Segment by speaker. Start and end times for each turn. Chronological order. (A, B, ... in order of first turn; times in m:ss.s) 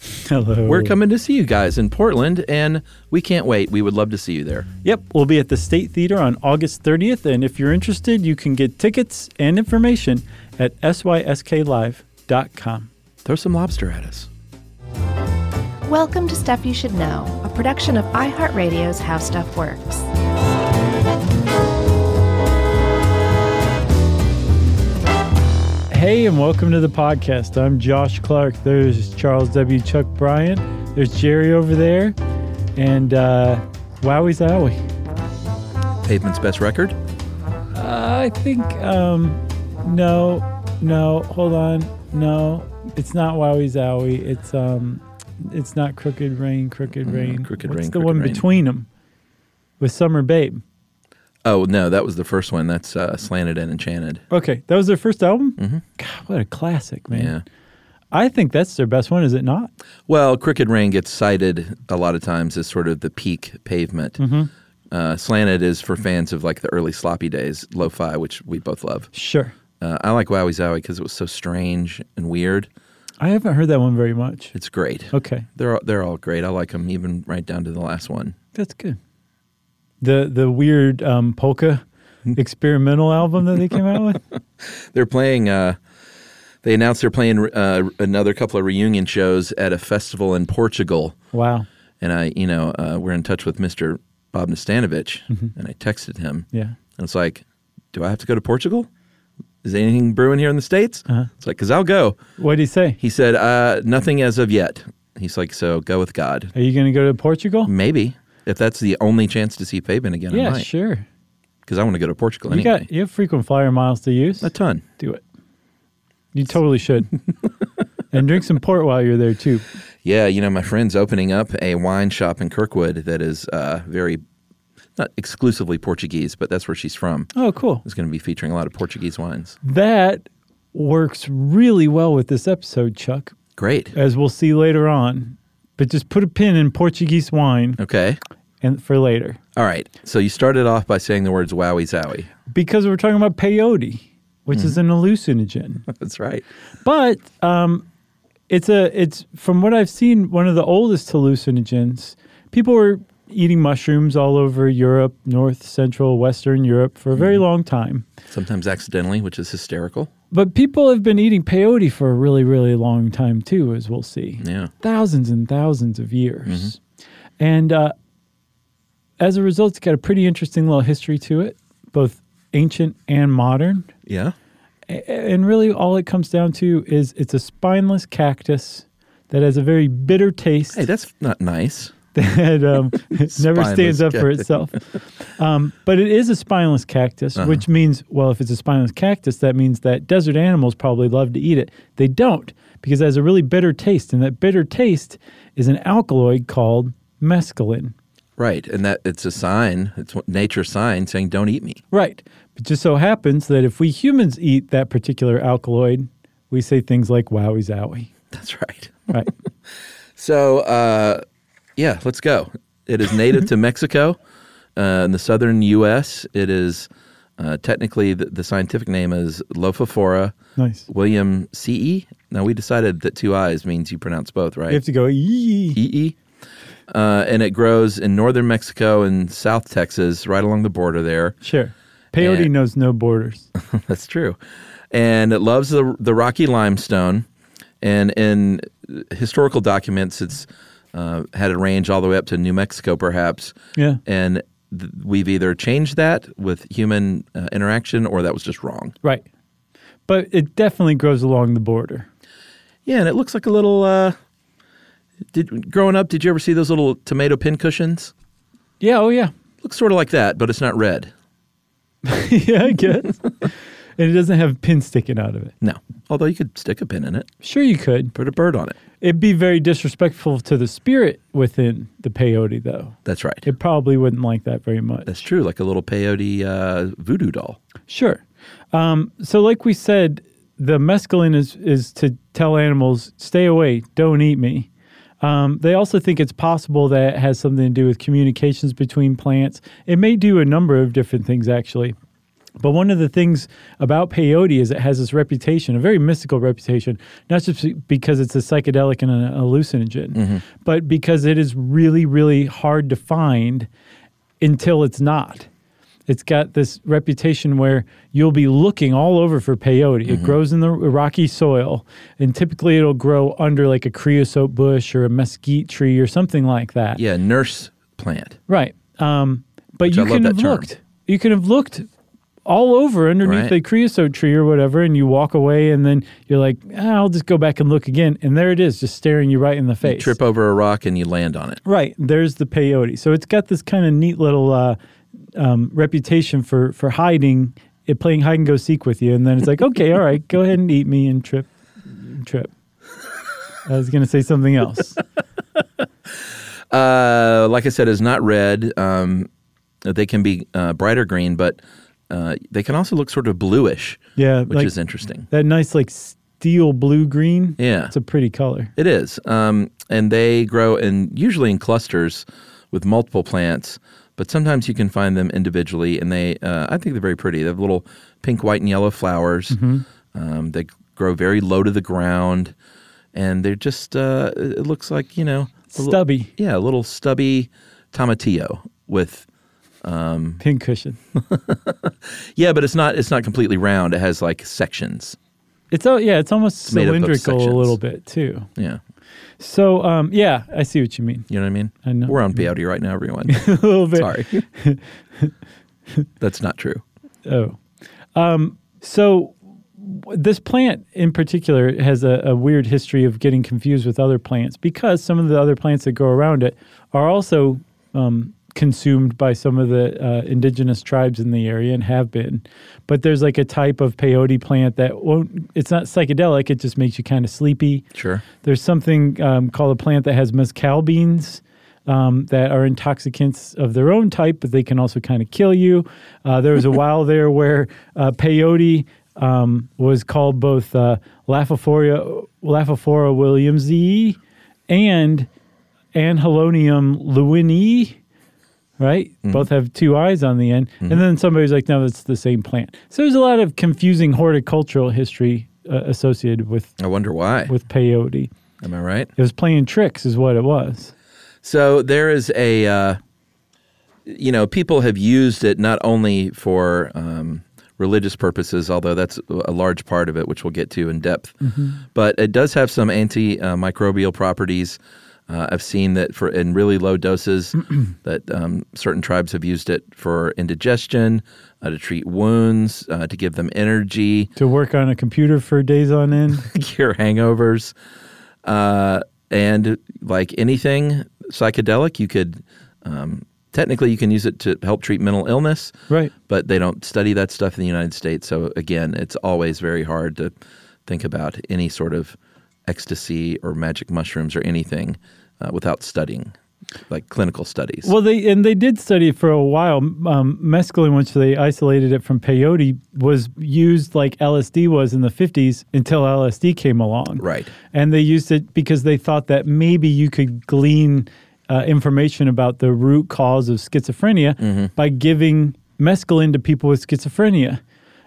0:00.1-0:00.9 A
0:00.6-0:04.7 B
0:04.8-0:12.9 A
0:13.2-0:14.3 B
0:15.9-0:20.1 C
0:25.9-0:32.2 A
0:32.8-0:34.8 A
0:36.0-0:37.0 B
0:37.7-0:48.8 A
0:47.0-0:48.4 B
0:49.8-0:50.6 A
0:51.4-0:54.2 B
0:54.3-0:57.4 A
0:57.1-0:57.4 B
0:58.1-0:59.7 A
1:00.1-1:04.2 B
1:04.2-1:04.5 A
1:04.9-1:09.1 B
1:09.1-1:09.5 A
1:09.8-1:12.7 B
1:13.2-1:14.5 A
1:14.5-1:18.4 B
1:15.1-1:15.5 A
1:18.5-1:19.0 A
1:20.0-1:21.8 A
1:22.3-1:24.2 A
1:24.6-1:25.8 B
1:26.6-1:31.2 B
1:31.3-1:31.6 A
1:32.0-1:38.9 B
1:39.6-1:42.2 B
1:42.4-1:43.0 A
1:43.0-1:46.5 B
1:46.5-1:47.7 A
1:47.6-1:50.7 B
1:50.3-1:51.0 A
1:51.6-1:52.9 B
1:52.5-1:55.2 A
1:54.4-1:54.8 B
1:56.3-1:57.1 A
1:58.1-1:59.6 A
2:00.0-2:04.2 B
2:05.0-2:07.3 B
2:07.3-2:07.8 A
2:07.8-2:09.6 B
2:09.6-2:13.3 A
2:13.6-2:13.9 B
2:13.9-2:17.8 A
2:17.8-2:18.2 B
2:18.6-2:19.4 A
2:19.5-2:22.3 B
2:22.5-2:25.9 A
2:25.9-2:26.4 B
2:26.8-2:27.8 A
2:28.5-2:38.0 A
2:37.1-2:37.4 B
2:38.3-2:40.1 B
2:40.3-2:46.8 A
2:44.4-2:44.7 B
2:46.5-2:46.7 B
2:47.4-2:47.9 A
2:49.2-2:53.9 A
2:54.0-2:54.3 B
2:54.9-3:00.8 A
3:00.7-3:01.9 B
3:02.1-3:17.9 A
3:03.1-3:04.4 B
3:07.4-3:07.6 B
3:18.4-3:21.8 B
3:21.9-3:28.1 A
3:28.3-3:29.3 B
3:30.2-3:31.2 B
3:31.8-3:34.2 B
3:34.8-3:40.4 B
3:40.6-3:40.9 A
3:40.9-3:44.8 B
3:44.7-3:45.8 A
3:45.7-3:46.2 B
3:46.9-3:51.4 B
3:51.4-3:53.5 A
3:52.2-3:52.5 B
3:53.6-3:54.4 B
3:54.9-3:57.3 B
3:57.8-4:09.0 B
4:03.7-4:04.0 A
4:10.1-4:12.1 A
4:12.8-4:14.2 B
4:15.3-4:18.1 B
4:18.8-4:19.3 A
4:19.6-4:21.1 B
4:22.0-4:25.5 A
4:25.6-4:27.3 B
4:27.4-4:28.1 A
4:28.1-4:28.8 B
4:29.0-4:35.1 A
4:33.0-4:33.5 B
4:35.0-4:37.6 B
4:37.9-4:38.2 A
4:38.7-4:44.7 A
4:45.2-4:52.0 A
4:52.6-5:03.7 A
5:00.1-5:00.4 B
5:04.4-5:05.5 A
5:06.1-5:17.0 A
5:10.1-5:10.4 B
5:17.0-5:18.4 B
5:18.5-5:21.9 A
5:19.8-5:20.7 B
5:22.4-5:30.1 A
5:23.2-5:23.5 B
5:29.8-5:31.6 B
5:31.6-5:34.8 A
5:35.4-5:42.5 A
5:43.6-5:45.0 A
5:46.7-5:49.3 B
5:49.8-5:55.3 B
5:54.2-5:54.7 A
5:55.3-5:58.7 A
5:57.6-5:57.9 B
5:58.8-6:09.6 B
6:09.5-6:09.8 A
6:10.1-6:12.5 B
6:13.1-6:19.2 B
6:15.7-6:16.3 A
6:19.8-6:20.4 B
6:20.4-6:21.0 A
6:21.1-6:25.2 B
6:25.7-6:28.5 A
6:26.7-6:27.8 B
6:28.6-6:28.8 B
6:29.4-6:31.3 A
6:31.3-6:34.4 B
6:31.8-6:32.4 A
6:33.3-6:35.3 A
6:36.2-6:36.8 B
6:37.2-6:37.6 A
6:38.1-6:57.9 A
6:57.9-6:58.2 B
6:58.4-7:15.3 A
7:15.9-7:18.0 A
7:18.8-7:26.7 A
7:26.8-7:27.5 B
7:27.5-7:28.3 A
7:28.6-7:29.1 B
7:29.2-7:30.9 A
7:31.4-7:33.0 B
7:34.0-7:44.8 B
7:41.4-7:41.8 A
7:45.3-7:54.3 B
7:54.4-7:56.5 A
7:56.4-7:57.7 B
7:58.4-8:10.3 B
8:10.8-8:16.3 B
8:16.9-8:17.9 B
8:17.8-8:37.6 A
8:27.2-8:27.5 B
8:34.4-8:34.7 B